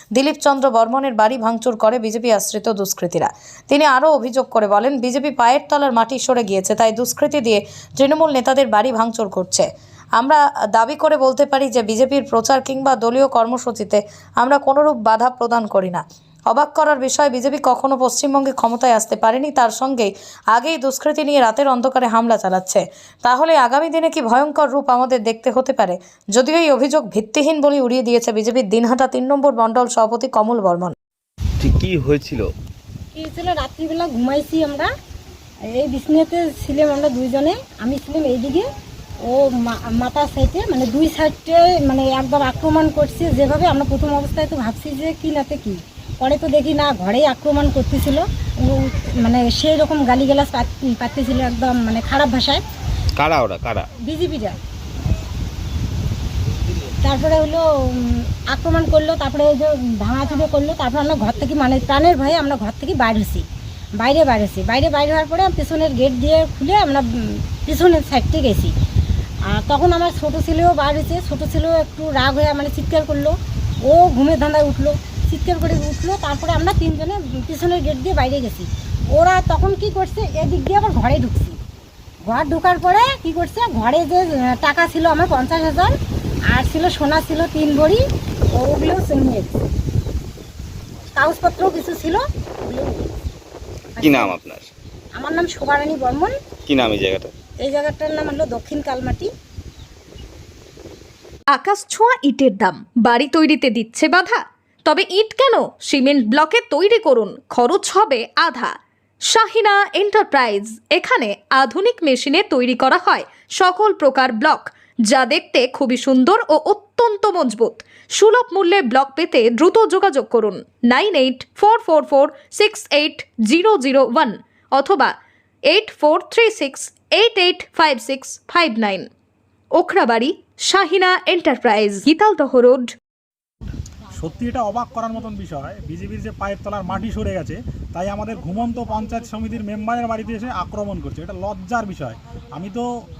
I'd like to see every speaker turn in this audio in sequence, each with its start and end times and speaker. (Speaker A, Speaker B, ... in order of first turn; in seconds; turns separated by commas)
Speaker A: 0.2-30.9, Speaker B: 31.6-32.5, Speaker C: 33.1-34.9, Speaker C: 35.6-38.7, Speaker C: 39.2-52.6, Speaker B: 53.2-53.9, Speaker C: 54.0-54.6, Speaker C: 57.0-68.7, Speaker C: 69.5-81.6, Speaker C: 82.2-86.0, Speaker C: 86.5-89.5, Speaker C: 91.2-93.1, Speaker C: 94.0-94.3, Speaker B: 94.0-94.7, Speaker C: 95.1-96.3, Speaker B: 96.7-97.3, Speaker C: 97.6-99.3, Speaker D: 101.5-108.8, Speaker D: 109.3-125.1, Speaker D: 125.7-129.1, Speaker D: 129.8-132.9, Speaker E: 134.1-142.9